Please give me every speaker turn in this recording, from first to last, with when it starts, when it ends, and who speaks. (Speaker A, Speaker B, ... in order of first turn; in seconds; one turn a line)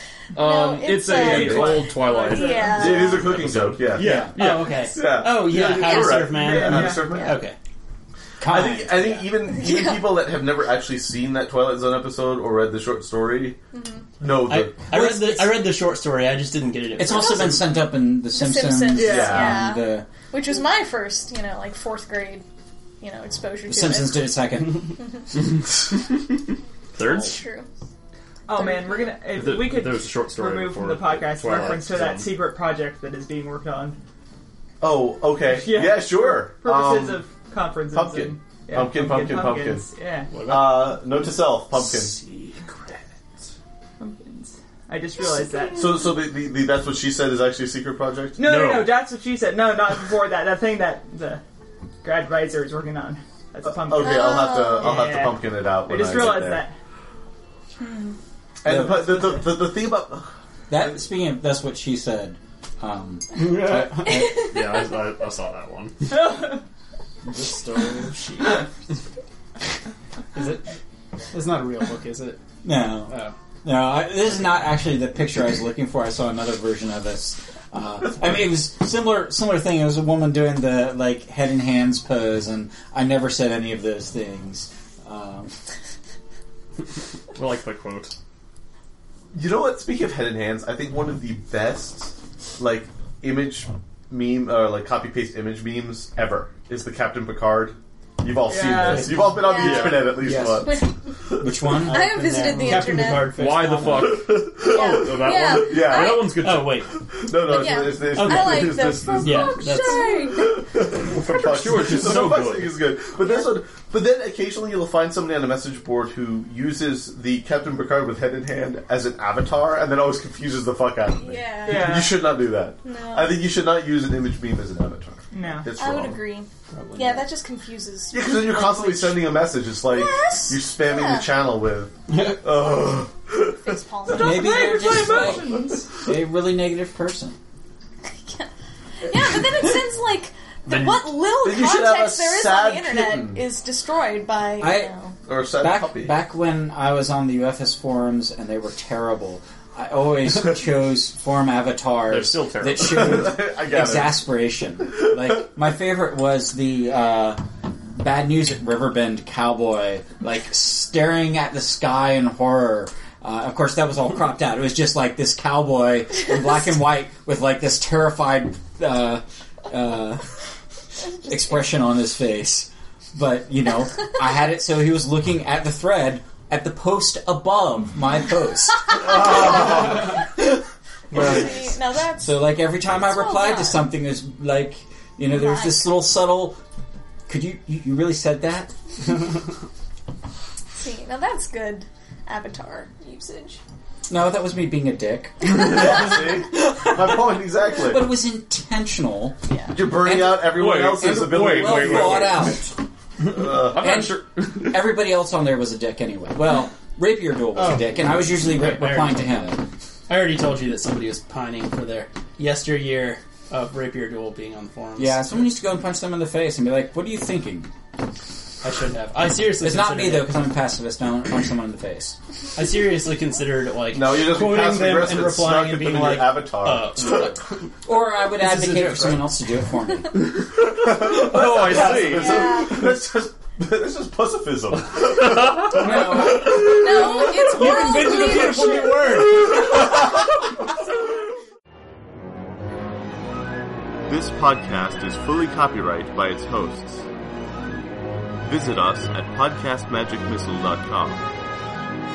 Speaker A: 0.3-4.6
Speaker B: 0.4-3.2
Speaker C: 0.9-1.9
Speaker D: 1.7-2.7
Speaker C: 2.7-7.4
Speaker E: 3.9-7.5
Speaker F: 3.9-4.4
Speaker B: 5.8-6.2
Speaker D: 6.3-7.1
Speaker B: 7.0-7.4
Speaker F: 8.4-9.3
Speaker C: 8.4-13.6
Speaker B: 9.5-10.2
Speaker B: 13.7-14.1
Speaker C: 14.2-14.8
Speaker E: 14.4-17.6
Speaker F: 14.9-15.6
Speaker F: 17.0-20.1
Speaker B: 17.0-22.4
Speaker D: 18.9-19.3
Speaker C: 19.0-19.6
Speaker B: 23.0-24.3
Speaker F: 23.6-25.1
Speaker A: 26.9-27.4
Speaker B: 27.0-27.7
Speaker D: 28.5-34.0
Speaker B: 28.5-29.1
Speaker A: 29.3-32.4
Speaker C: 34.8-37.3
Speaker D: 35.5-40.3
Speaker C: 37.9-39.9
Speaker E: 40.3-40.9
Speaker C: 40.5-42.2
Speaker E: 42.1-42.5
Speaker D: 44.0-45.8
Speaker C: 45.8-48.5
Speaker D: 48.4-51.4
Speaker E: 48.4-48.9
Speaker D: 52.0-54.1
Speaker C: 53.6-56.6
Speaker B: 53.9-55.1
Speaker D: 54.7-56.8
Speaker B: 57.8-58.1
Speaker C: 58.6-60.3
Speaker F: 58.6-59.8
Speaker F: 60.7-64.4
Speaker E: 63.4-64.2
Speaker A: 63.8-66.3
Speaker B: 64.4-64.8
Speaker D: 66.1-66.6
Speaker E: 67.2-68.7
Speaker E: 70.3-70.6
Speaker E: 71.3-72.4
Speaker F: 72.6-85.5
Speaker E: 73.0-73.3
Speaker E: 87.3-88.1
Speaker C: 89.3-100.8
Speaker D: 98.4-99.2
Speaker E: 98.7-100.7
Speaker B: 99.3-100.0
Speaker A: 99.6-100.4
Speaker B: 100.6-100.9
Speaker F: 101.3-102.1
Speaker E: 101.7-104.2
Speaker B: 101.8-103.3
Speaker A: 102.5-106.9
Speaker C: 104.1-126.2
Speaker B: 104.6-106.3
Speaker E: 106.4-110.4
Speaker B: 107.5-110.7
Speaker A: 111.1-112.8
Speaker B: 113.2-113.6
Speaker B: 121.0-122.1
Speaker D: 121.6-122.2
Speaker B: 122.8-123.4
Speaker D: 125.3-125.7
Speaker B: 125.8-131.3
Speaker E: 126.7-127.2
Speaker C: 128.1-133.7
Speaker E: 132.1-132.4
Speaker B: 133.4-134.7
Speaker D: 134.1-135.9
Speaker F: 134.1-137.4
Speaker B: 138.0-138.5
Speaker B: 139.0-145.1
Speaker E: 140.7-141.1
Speaker C: 141.4-143.4
Speaker F: 144.6-144.9
Speaker C: 145.3-146.1
Speaker F: 145.5-157.4
Speaker A: 152.1-153.3
Speaker E: 152.1-152.6
Speaker C: 152.9-154.2
Speaker F: 157.9-170.2
Speaker F: 171.1-180.4
Speaker B: 179.7-180.1
Speaker B: 181.1-183.9
Speaker F: 181.1-186.6
Speaker B: 185.2-185.9
Speaker F: 187.3-188.8
Speaker B: 190.7-193.6
Speaker F: 194.1-195.8
Speaker C: 195.5-198.1
Speaker F: 197.7-202.8
Speaker B: 199.5-199.8
Speaker C: 199.7-202.4
Speaker A: 200.5-202.6
Speaker C: 203.2-203.8
Speaker A: 203.3-204.8
Speaker F: 203.7-209.7
Speaker E: 207.6-209.6
Speaker E: 210.1-215.4
Speaker F: 215.0-217.7
Speaker E: 218.6-220.3
Speaker F: 219.6-222.2
Speaker E: 222.5-227.6
Speaker C: 223.9-227.3
Speaker F: 227.8-230.3
Speaker E: 228.4-229.2
Speaker C: 230.8-236.9
Speaker A: 231.2-232.7
Speaker E: 231.3-232.2
Speaker B: 231.8-232.7
Speaker E: 235.3-235.8
Speaker F: 235.8-236.4
Speaker B: 236.4-239.4
Speaker E: 236.9-239.4
Speaker C: 237.8-238.1
Speaker C: 244.1-247.1
Speaker C: 248.4-251.2